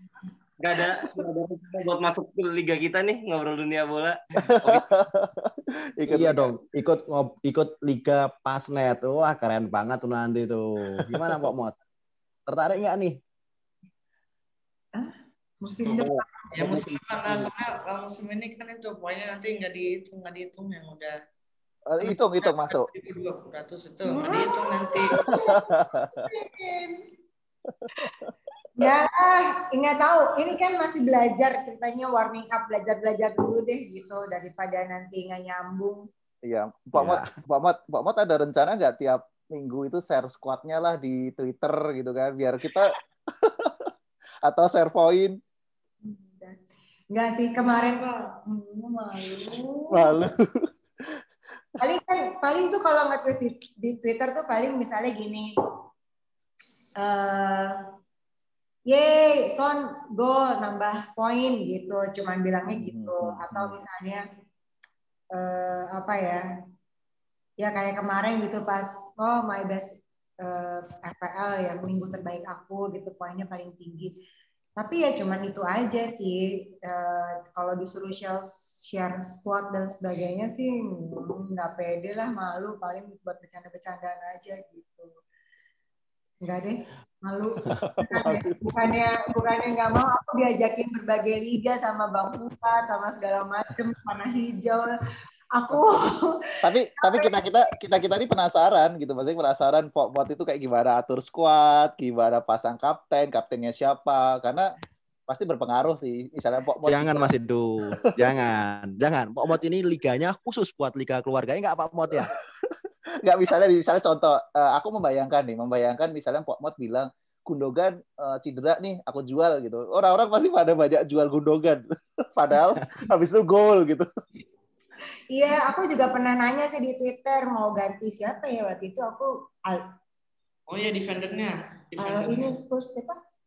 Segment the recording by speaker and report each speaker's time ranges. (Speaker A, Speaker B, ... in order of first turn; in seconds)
Speaker A: 0.6-4.8, 15.9-16.9
Speaker B: 4.4-6.5, 11.0-11.4, 21.9-22.9, 25.3-26.2, 27.8-28.3, 36.4-43.9, 44.5-45.4, 49.9-51.2, 62.7-63.8, 87.8-88.6, 96.6-104.7, 105.3-107.3, 112.1-124.1
Speaker C: 6.1-11.8, 12.5-13.2, 36.9-37.3, 106.8-112.3
Speaker D: 14.9-16.9, 24.1-27.0, 28.8-36.0, 46.0-50.1, 51.8-55.5, 57.0-57.8, 58.9-64.2, 65.3-66.4, 67.6-74.1, 74.8-85.1, 86.4-94.9, 95.5-96.3, 97.0-97.7, 125.3-129.9, 132.0-133.2
Speaker E: 16.5-21.1, 22.0-25.3, 47.6-48.2, 130.7-132.6